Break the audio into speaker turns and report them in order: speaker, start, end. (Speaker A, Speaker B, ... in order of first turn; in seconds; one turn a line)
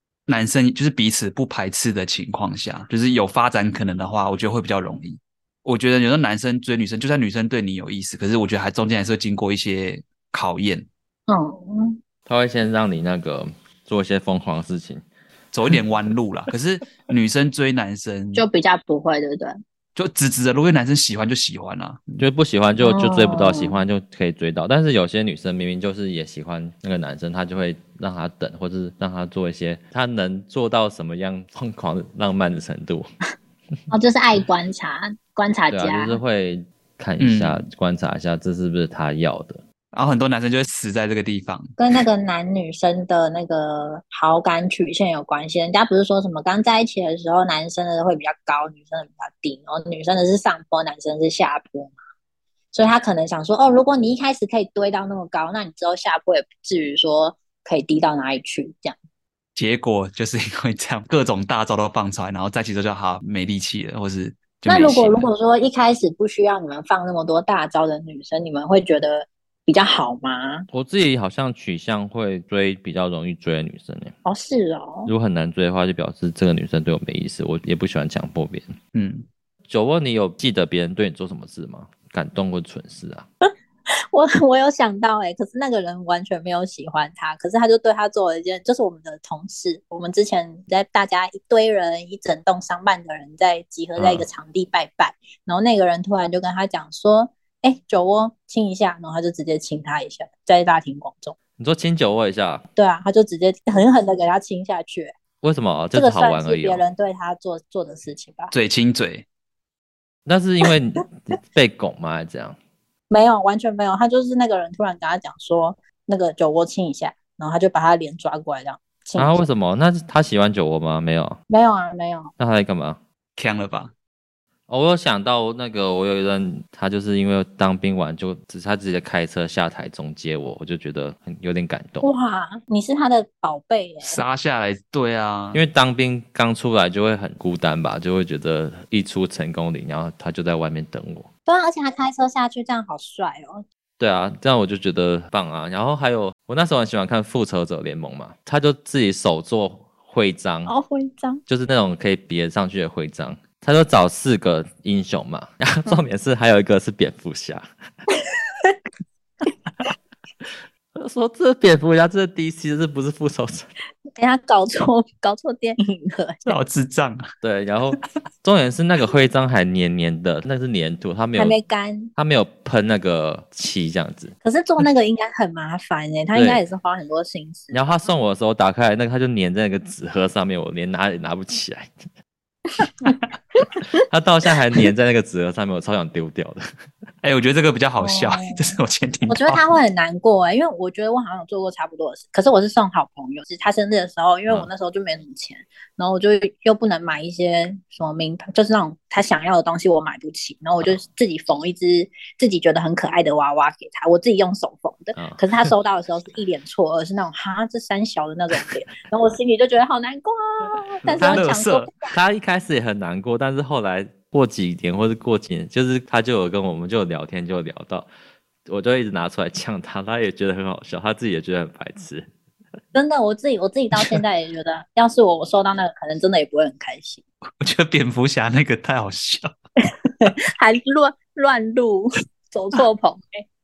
Speaker A: 0.3-10.9
Speaker B: 11.3-12.0
Speaker C: 12.2-15.0
Speaker A: 15.5-18.4
Speaker B: 18.3-19.6
Speaker A: 19.9-22.2
Speaker C: 22.2-33.1
Speaker B: 22.8-23.8
Speaker B: 33.9-36.2
Speaker C: 35.7-39.6
Speaker A: 37.2-37.7
Speaker A: 39.9-41.8
Speaker B: 41.8-51.9
Speaker B: 52.7-59.0
Speaker A: 59.5-65.2
Speaker B: 64.7-70.7
Speaker C: 70.7-74.1
Speaker B: 74.2-75.1
Speaker C: 75.0-78.8
Speaker A: 78.9-79.2
Speaker C: 79.7-83.2
Speaker B: 84.1-101.3
Speaker C: 94.0-94.3
Speaker C: 101.6-102.6
Speaker B: 102.7-105.1
Speaker C: 105.4-106.8
Speaker B: 105.9-108.5
Speaker A: 108.5-109.2
Speaker C: 110.2-112.6
Speaker B: 113.1-119.4
Speaker C: 119.2-121.4
Speaker B: 121.5-122.3
Speaker C: 122.4-123.0
Speaker A: 123.4-123.9
Speaker C: 124.7-132.0
Speaker B: 132.0-134.2
Speaker A: 134.0-135.6
Speaker C: 135.5-141.3
Speaker B: 141.5-143.6
Speaker C: 144.0-150.7
Speaker B: 150.7-151.4
Speaker C: 151.5-157.7
Speaker C: 160.9-163.7
Speaker B: 164.2-166.6
Speaker A: 166.4-167.2
Speaker C: 167.4-171.6
Speaker B: 171.3-172.1
Speaker C: 172.2-174.3
Speaker B: 174.4-177.8
Speaker C: 176.3-176.6
Speaker C: 177.7-181.9
Speaker B: 182.8-184.0
Speaker C: 184.0-186.7
Speaker A: 187.2-189.6
Speaker B: 188.0-188.8
Speaker B: 189.3-212.1
Speaker C: 205.1-205.4
Speaker A: 211.0-211.9
Speaker C: 211.2-211.5
Speaker C: 212.0-218.1
Speaker C: 218.7-222.3
Speaker B: 222.9-227.2
Speaker A: 227.6-229.5
Speaker B: 230.2-233.4